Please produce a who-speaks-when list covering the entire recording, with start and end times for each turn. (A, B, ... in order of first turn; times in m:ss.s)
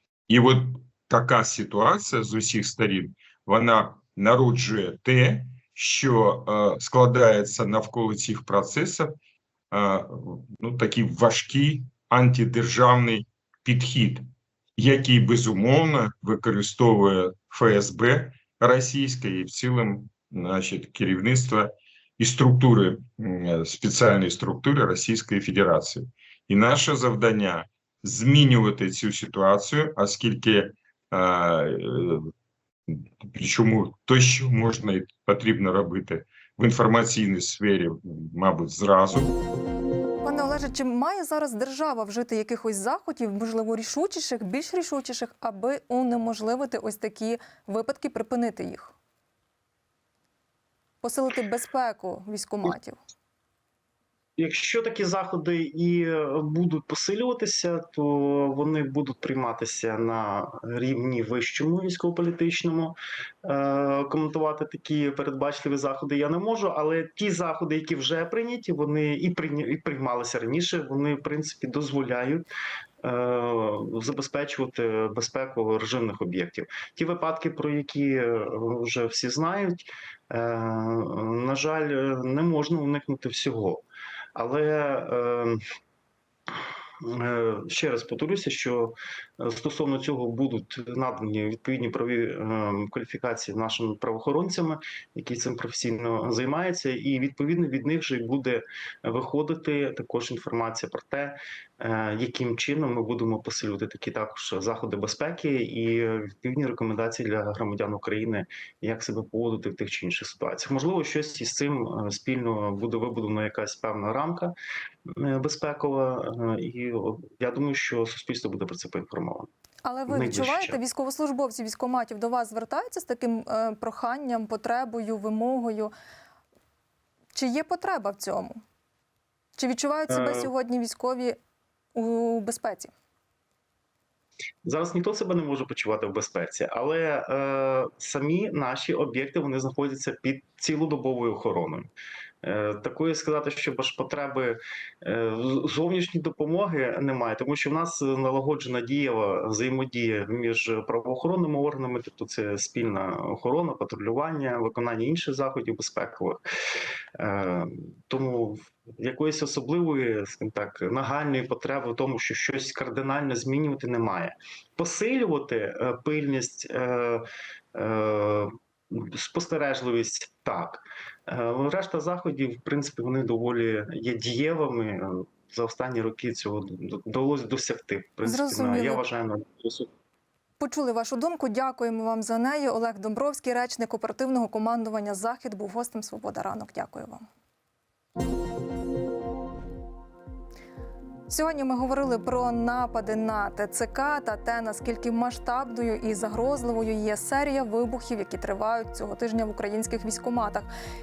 0:00.3-0:09.2 A
0:09.7-0:32.3 A
0:32.9-0:39.3 A
0:40.2-0:48.9 B
0:51.0-0:53.0 B
0:54.4-1:12.5 C
1:13.0-1:23.8 C
1:24.3-1:25.6 C
1:26.5-1:54.5 C
1:55.1-1:59.5 C
1:59.8-2:05.9 B
2:00.1-2:00.8 C
2:07.3-2:08.6 B
2:09.6-2:11.4 B
2:10.1-2:10.5 C
2:11.9-2:12.9 B
2:14.6-2:21.9 C
2:22.4-2:36.4 C
2:37.2-2:59.9 C
2:58.2-2:59.0 B
3:00.6-3:07.2 B
3:11.3-3:20.7 B